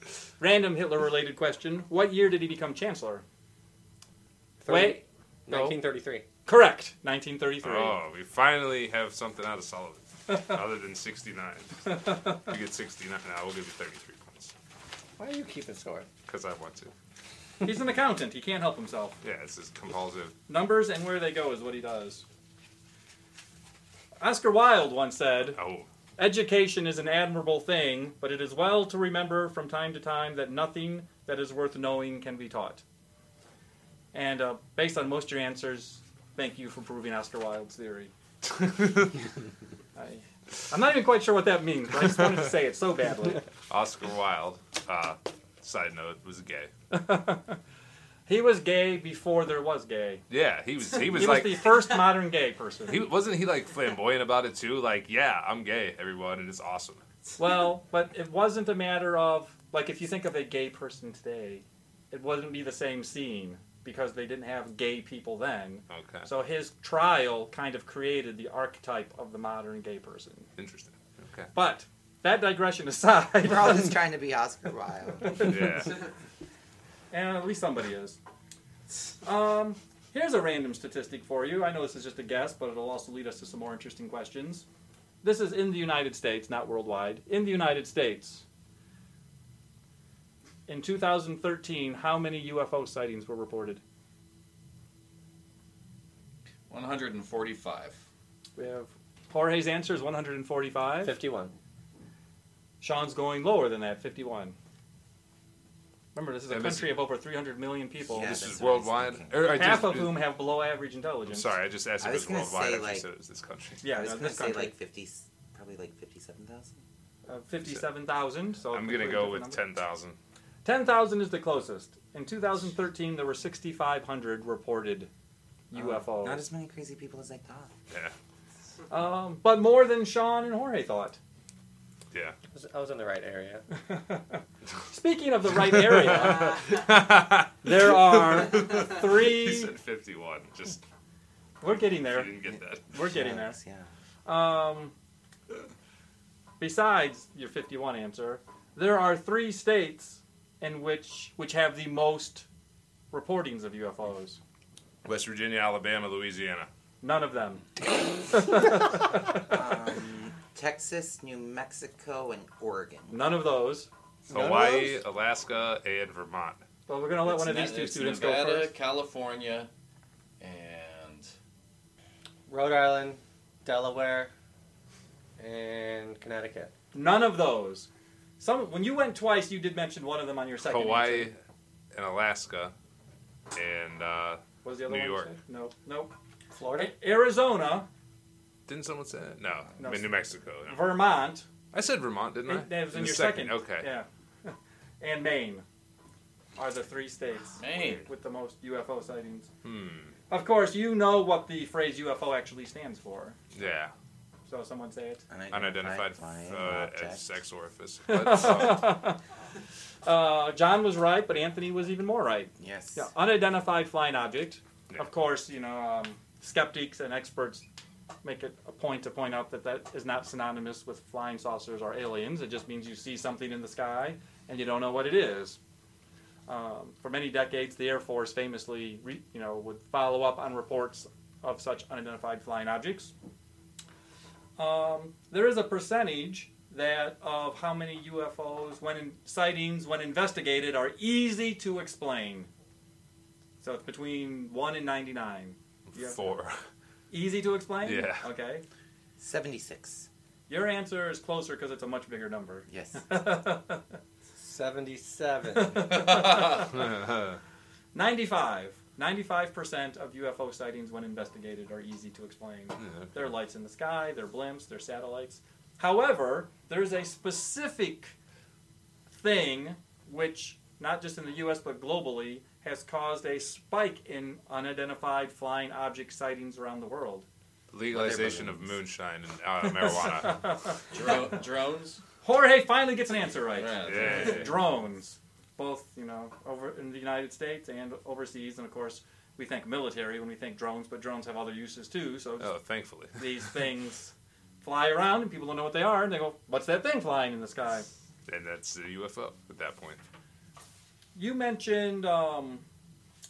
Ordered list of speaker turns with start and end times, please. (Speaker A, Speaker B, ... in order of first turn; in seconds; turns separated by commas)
Speaker A: 0.4-3.2, Speaker B: 4.6-6.2, Speaker A: 4.7-5.8, Speaker A: 6.5-8.0, Speaker C: 7.6-14.5, Speaker B: 15.2-16.1, Speaker C: 16.3-16.9, Speaker A: 17.6-19.2, Speaker C: 19.2-20.4, Speaker A: 20.5-22.2, Speaker A: 24.2-25.6, Speaker C: 25.6-25.9, Speaker A: 26.2-32.8, Speaker A: 34.1-38.1, Speaker C: 38.5-39.2, Speaker A: 40.0-43.5, Speaker C: 43.7-46.7, Speaker A: 46.9-47.6, Speaker A: 48.3-50.2, Speaker C: 50.3-52.0, Speaker A: 51.0-53.0, Speaker C: 52.9-57.0, Speaker A: 57.4-70.5, Speaker C: 65.9-66.3, Speaker C: 70.6-71.5, Speaker A: 71.5-73.9, Speaker D: 73.4-75.5, Speaker A: 75.3-75.7, Speaker C: 75.3-76.0, Speaker A: 77.1-78.2, Speaker A: 79.2-84.7, Speaker A: 85.2-88.4, Speaker A: 90.7-93.8, Speaker E: 96.7-98.0, Speaker A: 98.6-101.2, Speaker B: 101.0-101.5, Speaker A: 102.8-104.6, Speaker A: 106.1-108.4, Speaker C: 106.5-107.0, Speaker D: 108.1-109.8, Speaker C: 108.2-110.2, Speaker A: 109.5-111.5, Speaker C: 111.3-113.8, Speaker D: 112.0-113.1, Speaker A: 113.8-114.7, Speaker D: 113.9-116.8, Speaker A: 117.3-119.6, Speaker C: 118.7-120.2, Speaker A: 120.7-125.1, Speaker A: 125.7-126.4, Speaker D: 125.7-127.7, Speaker A: 128.9-131.2, Speaker B: 132.5-133.7, Speaker A: 133.8-136.8, Speaker C: 136.7-137.5, Speaker A: 137.6-139.7, Speaker C: 138.1-140.8, Speaker A: 141.6-142.4, Speaker C: 141.7-142.8, Speaker A: 142.9-143.6, Speaker D: 142.9-143.9, Speaker A: 144.3-144.9, Speaker A: 146.6-152.5, Speaker A: 153.1-154.4, Speaker C: 155.0-156.7, Speaker A: 157.0-157.7, Speaker A: 158.3-159.4, Speaker D: 159.3-163.2, Speaker A: 163.1-163.9, Speaker B: 164.3-165.0, Speaker C: 164.3-166.6, Speaker A: 166.9-168.7, Speaker E: 167.2-169.7, Speaker E: 170.4-171.3, Speaker B: 172.5-174.3, Speaker B: 175.4-176.7, Speaker A: 176.9-177.9, Speaker A: 178.4-181.3, Speaker C: 180.7-181.4, Speaker C: 181.9-182.7, Speaker C: 183.5-185.3, Speaker A: 184.6-186.1, Speaker B: 186.5-186.9, Speaker A: 186.8-187.9, Speaker C: 188.7-190.9, Speaker A: 189.8-190.1, Speaker A: 190.7-191.5, Speaker C: 191.7-193.9, Speaker A: 192.5-195.6, Speaker A: 196.6-199.5, Speaker E: 197.6-198.1, Speaker C: 199.6-200.1, Speaker A: 200.3-203.4, Speaker C: 203.5-203.9, Speaker A: 204.5-205.2, Speaker D: 205.3-207.2, Speaker C: 205.5-208.9, Speaker A: 208.1-209.2, Speaker A: 210.1-217.7, Speaker D: 212.6-213.1, Speaker A: 218.2-225.6, Speaker A: 226.5-233.1, Speaker A: 234.6-242.5, Speaker A: 243.6-246.2, Speaker C: 245.9-246.6, Speaker A: 247.1-248.6, Speaker C: 247.8-248.3, Speaker D: 249.2-250.1, Speaker A: 250.5-254.0, Speaker D: 252.7-253.2, Speaker B: 254.4-256.1, Speaker A: 255.5-256.7, Speaker E: 256.3-256.5, Speaker C: 256.8-257.4, Speaker A: 257.9-268.1, Speaker C: 262.8-263.1, Speaker A: 269.1-277.3, Speaker C: 277.7-280.4, Speaker E: 278.2-278.6, Speaker A: 279.7-280.8, Speaker E: 280.9-282.0, Speaker A: 282.2-292.5, Speaker E: 283.6-284.6, Speaker C: 283.8-284.6, Speaker C: 292.4-293.4, Speaker A: 293.1-297.9, Speaker C: 298.3-300.0, Speaker A: 301.2-302.6